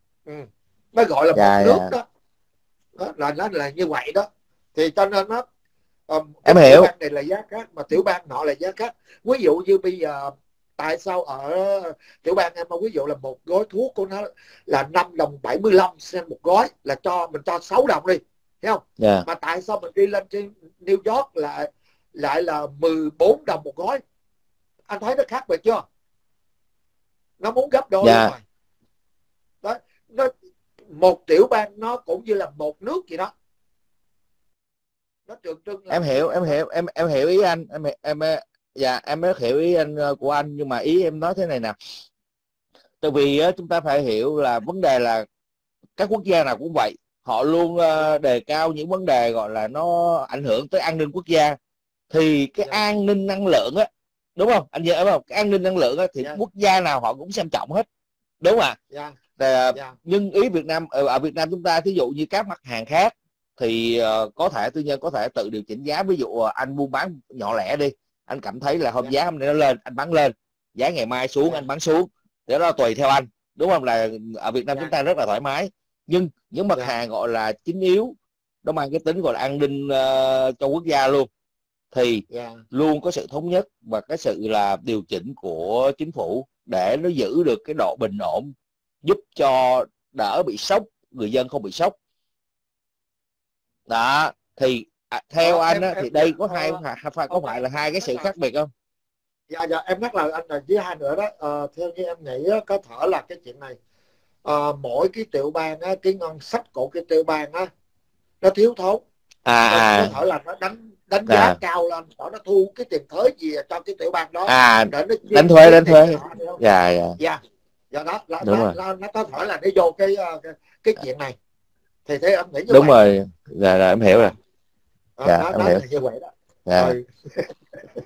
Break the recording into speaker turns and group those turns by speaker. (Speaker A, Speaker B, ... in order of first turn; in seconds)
Speaker A: 0.3-2.0, 3.0-5.4, 6.1-24.0, 24.9-25.8, 27.4-28.4, 29.6-30.3, 30.9-33.3, 35.3-36.6, 58.9-59.2, 82.3-82.6, 95.4-98.3, 99.5-103.8, 104.4-107.7, 108.4-109.0, 109.7-116.6, 117.9-121.3, 122.0-123.0, 125.2-127.5
Speaker B: 1.3-1.9, 6.5-6.9, 19.0-19.2, 28.0-28.3, 35.9-41.8, 43.0-45.2, 46.0-51.6, 52.1-57.9, 58.4-58.8, 59.4-81.3, 81.9-88.5, 89.0-91.9, 93.9-98.7, 109.5-110.1, 111.3-111.6, 114.5-117.2, 118.4-118.7, 122.7-124.3, 125.2-125.8, 126.7-126.9